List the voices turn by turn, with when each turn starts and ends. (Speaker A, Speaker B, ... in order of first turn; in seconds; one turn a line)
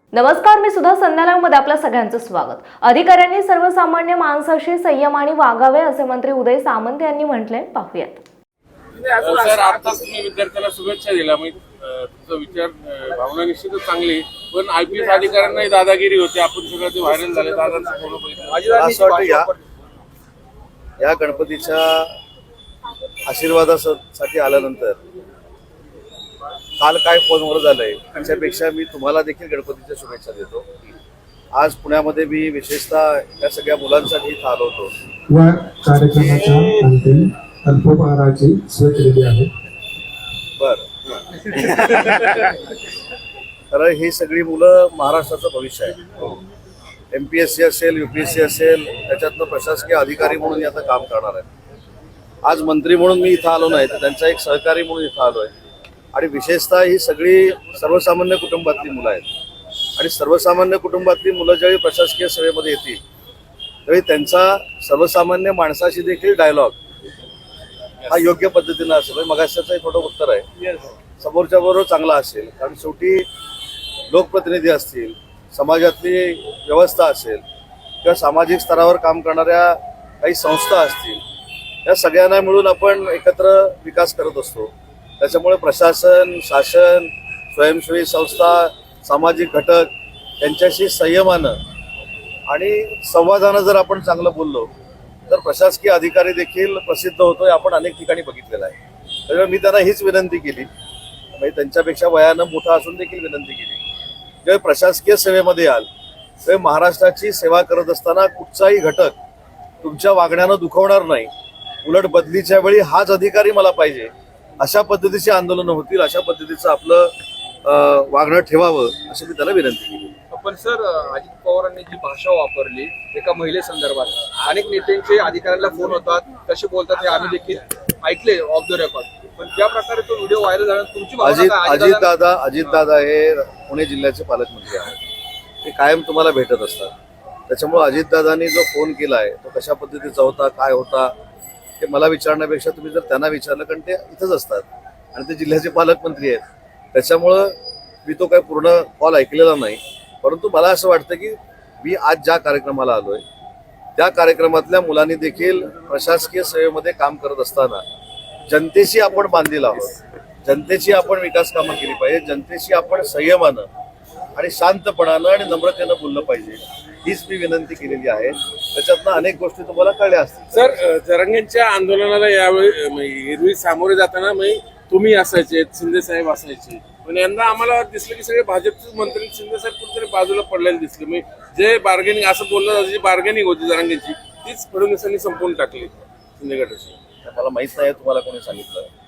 Speaker A: 0.1-8.2
Speaker B: 8.9-18.6
Speaker C: 17.1-17.9
Speaker C: 18.4-19.6
Speaker D: 18.8-19.5
Speaker D: 21.0-22.1
Speaker D: 23.3-25.0
Speaker D: 26.8-30.7
Speaker D: 31.5-34.9
Speaker E: 35.3-39.5
Speaker D: 40.6-40.9
Speaker D: 43.7-46.0
Speaker D: 47.1-51.5
Speaker D: 52.4-55.5
Speaker D: 56.1-59.2
Speaker D: 60.0-63.0
Speaker D: 63.9-66.8
Speaker D: 68.1-70.4
Speaker D: 71.2-73.2
Speaker D: 74.1-77.4
Speaker D: 78.0-81.2
Speaker D: 81.8-91.6
Speaker D: 92.5-94.7
Speaker D: 95.3-98.8
Speaker D: 99.3-100.7
Speaker D: 101.3-103.8
Speaker D: 104.4-105.9
Speaker D: 106.4-109.1
Speaker D: 109.8-111.3
Speaker D: 111.8-117.1
Speaker D: 117.6-120.1
Speaker C: 120.3-132.8
Speaker D: 131.2-134.9
Speaker D: 135.6-136.9
Speaker D: 137.5-141.1
Speaker D: 141.8-146.4
Speaker D: 146.9-153.2
Speaker D: 154.0-157.8
Speaker D: 158.5-159.9
Speaker D: 160.4-163.7
Speaker D: 164.3-170.7
Speaker B: 170.5-187.0
Speaker D: 187.2-188.9